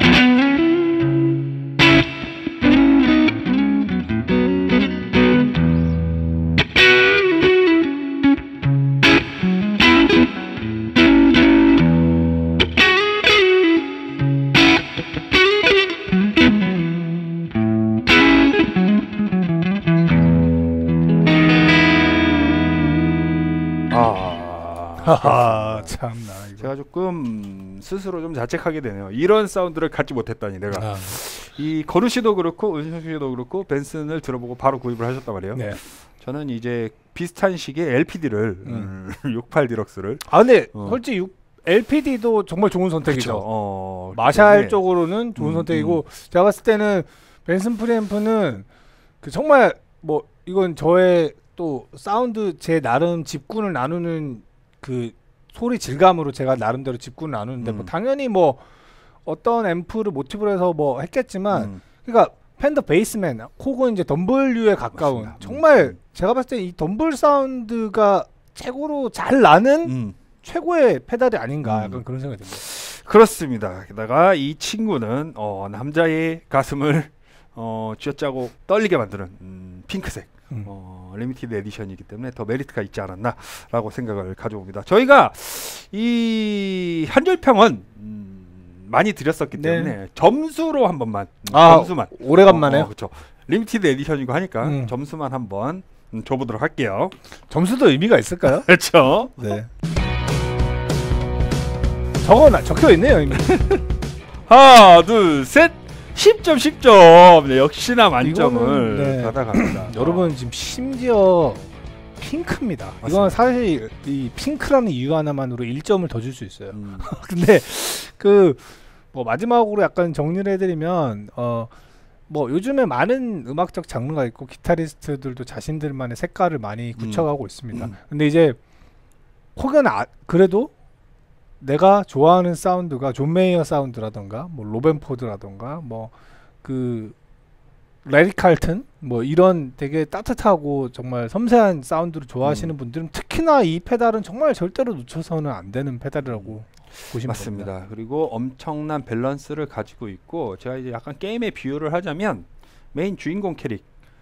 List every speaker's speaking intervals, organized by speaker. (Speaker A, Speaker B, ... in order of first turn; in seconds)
Speaker A: 23.9-26.0, 26.6-41.0, 43.0-44.8, 45.4-46.0, 57.6-57.9, 61.5-61.8, 64.9-66.0, 69.8-70.2, 71.6-97.2, 98.5-99.6, 104.5-110.4, 113.0-113.4, 116.7-117.1, 127.0-128.0, 142.4-142.7, 146.2-146.6, 147.1-153.9
Speaker B: 25.0-26.7, 30.7-31.2, 38.6-38.9, 40.3-43.5, 44.1-48.7, 49.2-58.6, 59.3-72.6, 89.5-90.0, 91.5-92.9, 94.6-94.9, 97.5-98.7, 99.4-99.7, 102.2-103.7, 108.2-121.7, 122.3-128.6, 129.6-130.7, 131.6-136.1, 136.6-137.2, 138.0-147.7